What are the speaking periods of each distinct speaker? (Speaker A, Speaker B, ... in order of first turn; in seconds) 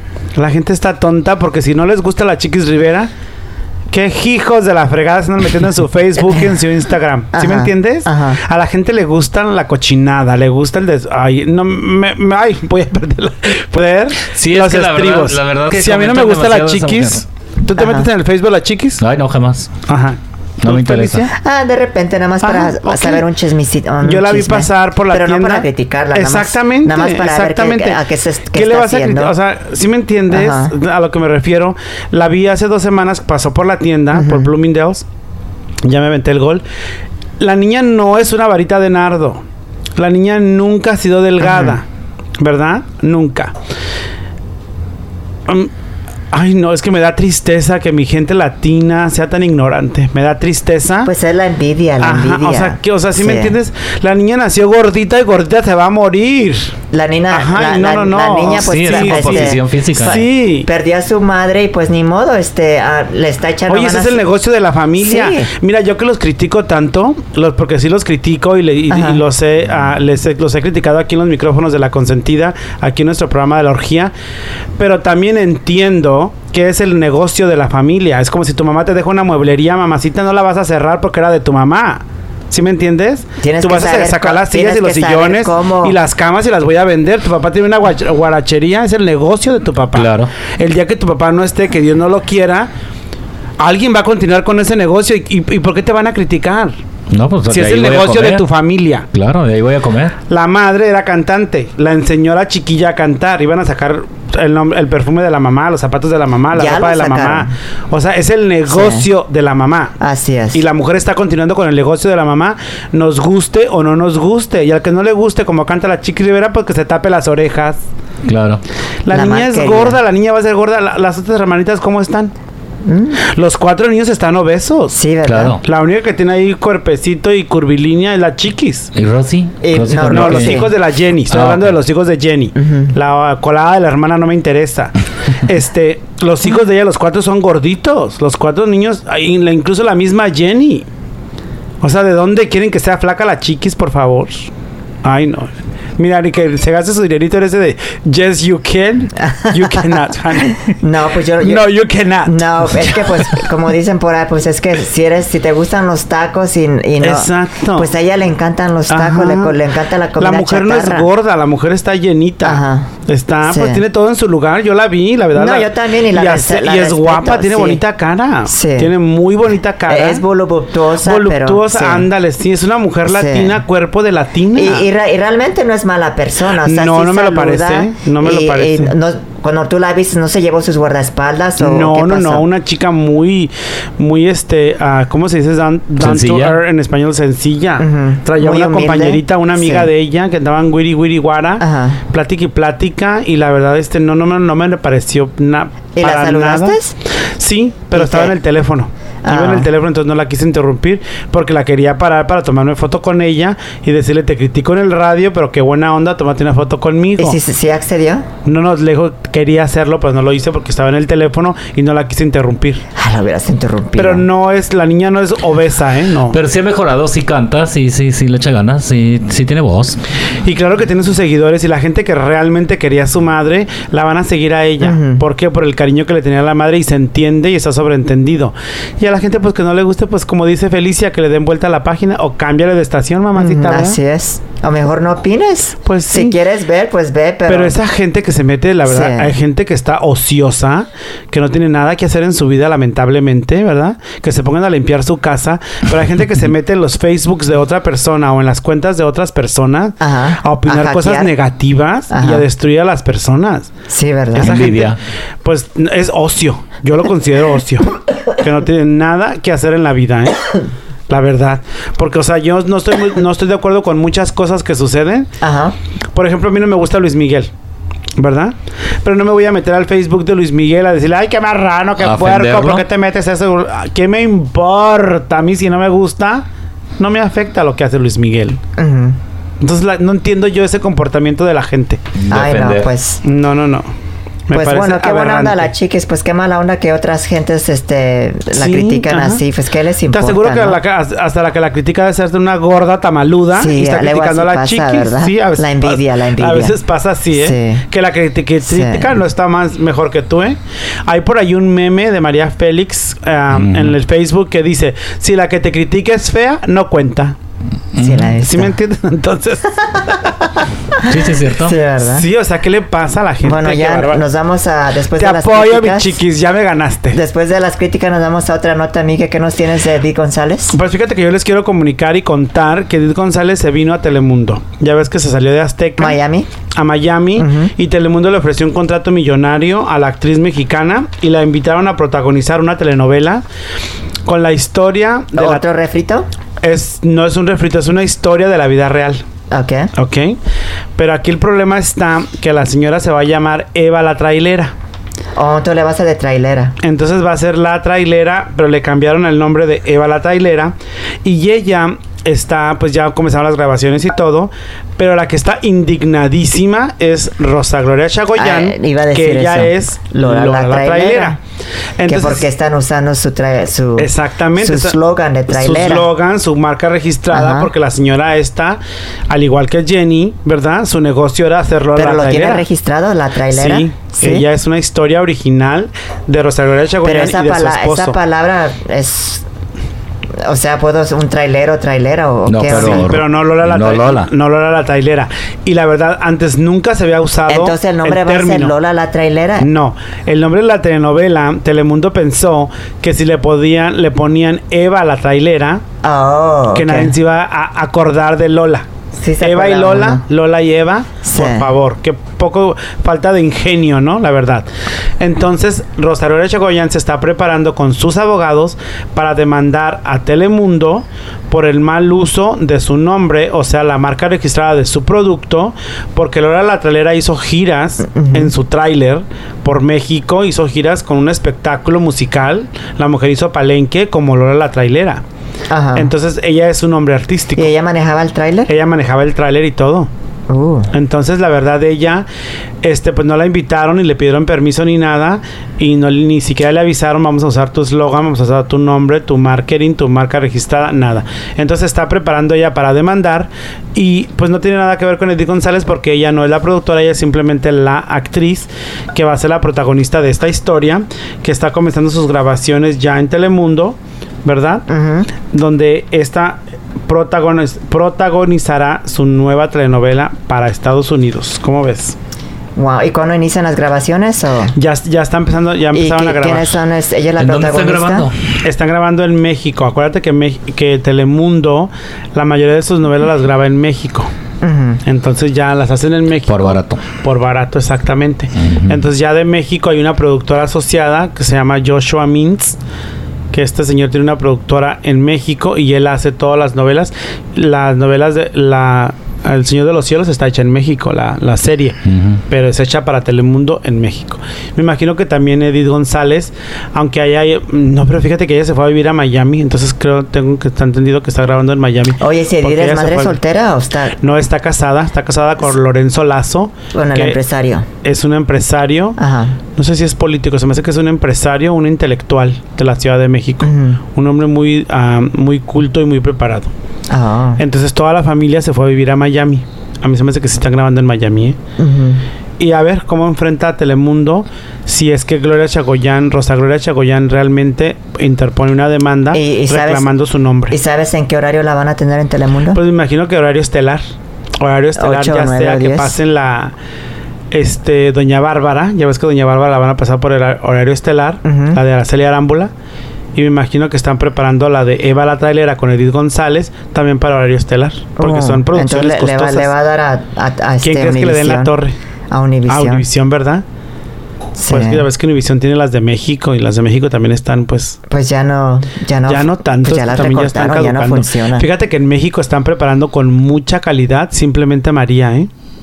Speaker A: 0.4-3.1, 3.9-19.0, 19.9-21.3, 22.4-23.2, 24.0-28.0, 28.6-35.0, 35.8-36.6, 37.4-39.4, 40.0-41.9, 42.4-43.5, 46.3-51.1, 52.0-56.8, 57.3-60.7, 63.7-74.1, 74.8-92.7, 93.6-96.7, 97.5-99.1, 100.3-110.0, 110.5-117.8, 119.1-122.3, 123.2-124.9, 125.6-128.9, 130.1-140.9, 141.8-144.5, 145.0-150.8, 151.4-153.5, 157.0-157.9, 158.9-159.6, 160.2-170.2, 171.0-174.9, 176.6-178.9, 181.6-196.8, 197.4-207.4, 208.4-212.8, 214.0-216.4, 220.4-234.0, 235.9-236.4, 237.5-253.7, 254.3-260.5, 261.1-265.3, 266.1-267.5, 268.2-276.4, 277.0-278.6, 279.6-282.0, 283.2-283.9, 284.5-285.7, 288.5-289.4, 290.1-307.4, 308.4-310.2, 312.0-314.2, 315.2-317.2, 320.7-326.2, 326.8-333.4, 334.3-335.6, 336.6-339.2, 339.9-340.4, 341.0-344.7, 346.8-361.4, 362.0-362.5, 364.0-365.0, 365.5-372.6, 373.5-378.2, 382.7-388.7, 389.6-395.8, 396.7-398.9, 399.4-404.7, 405.2-425.2, 426.0-427.7, 428.7-430.1, 430.9-432.3, 432.8-454.9, 455.5-462.2, 464.8-466.8, 468.6-474.3, 475.1-482.8, 483.5-503.4, 504.2-507.4, 508.0-509.2, 509.8-516.7, 517.6-521.6, 522.6-530.8, 532.7-534.0, 534.6-536.8, 537.5-542.7, 543.4-549.7, 550.8-552.0, 552.7-553.6, 554.7-558.0, 559.3-565.5
Speaker B: 7.3-8.4, 17.8-18.1, 21.3-29.3, 30.3-30.7, 34.1-34.5, 41.4-41.8, 51.0-53.5, 56.9-64.2, 65.0-65.5, 68.9-69.2, 83.4-86.0, 106.5-107.5, 108.7-109.1, 110.0-110.6, 119.1-120.0, 122.8-123.2, 124.9-125.6, 129.6-130.7, 132.6-132.9, 149.2-149.8, 150.6-151.7, 152.2-161.1, 162.4-162.9, 163.5-163.8, 165.3-167.8, 168.5-168.9, 169.9-172.1, 173.1-173.6, 174.6-182.4, 187.8-189.9, 191.6-192.0, 195.9-196.9, 197.9-198.3, 199.2-199.7, 207.2-208.3, 213.0-214.3, 224.8-225.2, 233.4-237.8, 238.9-239.3, 250.0-251.3, 252.1-252.4, 253.9-254.9, 265.4-265.8, 278.8-279.2, 282.3-283.2, 284.5-290.8, 293.6-296.8, 297.3-297.9, 298.7-299.1, 308.0-308.7, 311.0-312.3, 313.4-316.2, 317.1-320.8, 326.0-326.5, 327.4-327.7, 335.4-336.3, 339.5-339.9, 345.4-346.8, 358.4-361.4, 362.1-366.1, 367.3-367.7, 372.0-374.5, 377.0-379.4, 380.4-383.1, 387.5-389.7, 396.0-397.1, 399.2-400.2, 401.2-401.7, 418.1-418.5, 425.7-426.1, 427.6-428.7, 430.5-430.9, 454.9-455.3, 462.8-464.8, 465.9-468.3, 474.6-475.0, 502.2-504.2, 506.9-507.9, 509.2-509.6, 513.6-514.0, 517.1-517.6, 521.8-522.2, 529.3-530.1, 530.7-532.8, 535.0-536.2, 541.5-541.8, 548.2-551.7, 552.3-553.0, 554.6-555.1, 558.1-561.7
Speaker C: 14.3-17.2, 19.0-19.7, 20.6-21.3, 58.5-60.2, 89.9-90.3, 97.1-98.4, 99.1-100.2, 118.2-118.6, 125.3-125.6, 128.9-130.7, 131.3-131.8, 186.0-186.6, 216.3-220.0, 254.4-255.0, 272.0-272.9, 282.2-282.9, 303.5-303.9, 307.9-308.3, 311.1-311.8, 382.5-384.3, 467.4-468.4, 476.5-477.1, 478.6-479.1, 492.1-492.4